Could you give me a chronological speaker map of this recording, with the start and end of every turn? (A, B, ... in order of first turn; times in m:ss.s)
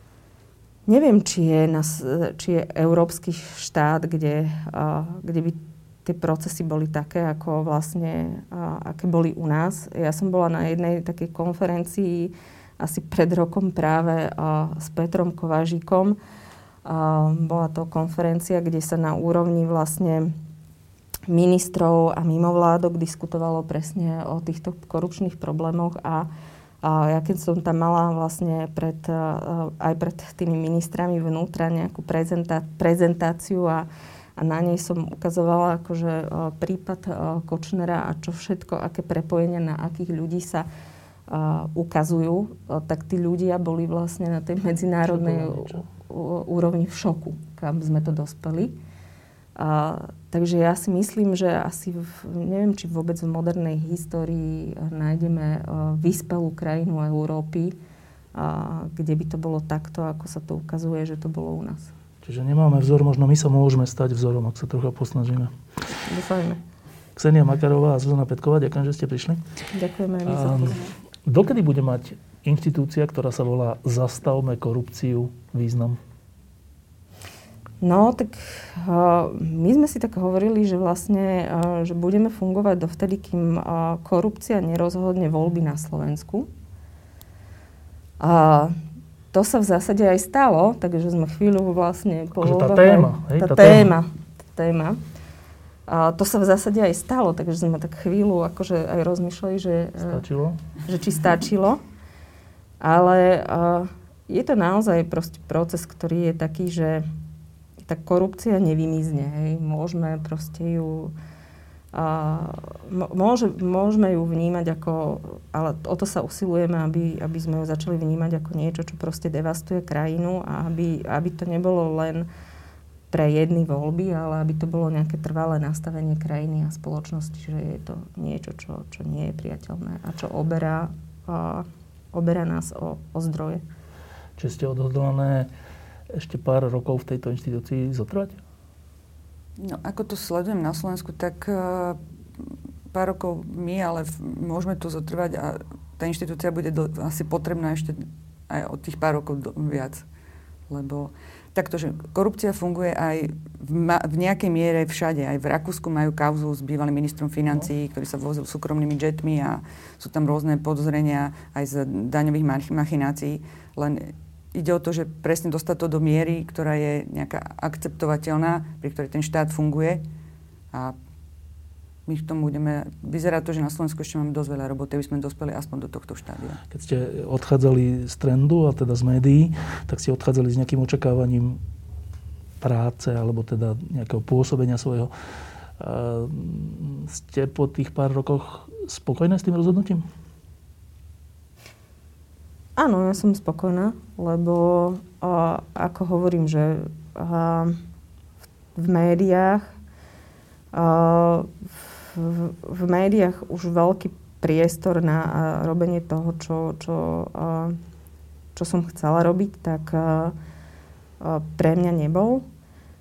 0:00.9-0:16.2 A
0:16.8-0:20.3 A
0:21.3-0:26.3 A
0:26.8-0:40.7 A
0:41.3-0:48.8 A
0:45.1-0:45.8 B
0:49.6-0:57.8 A
0:58.3-1:01.9 A
1:02.2-1:05.5 B
1:06.1-1:06.6 A
1:07.2-1:09.4 B
1:09.7-1:10.8 A
1:10.3-1:16.0 B
1:17.8-1:26.5 A
1:28.2-1:28.8 A
1:29.3-1:35.0 A
1:32.4-1:33.9 B
1:35.9-1:40.2 A
1:40.0-1:40.6 B
1:40.8-1:41.8 A
1:42.8-1:47.0 A
1:47.9-1:51.1 A
1:51.9-2:02.3 A
2:03.1-2:13.6 A
2:14.4-2:15.5 B
2:16.1-2:18.4 B
2:19.6-2:30.0 C
2:30.7-2:50.0 C
2:52.1-2:56.6 C
2:56.7-3:01.6 B
3:02.6-3:05.1 B
3:05.8-3:10.0 B
3:12.8-3:17.8 A
3:18.8-3:19.6 A
3:20.7-3:27.8 A
3:28.6-3:30.4 A
3:31.2-3:32.4 A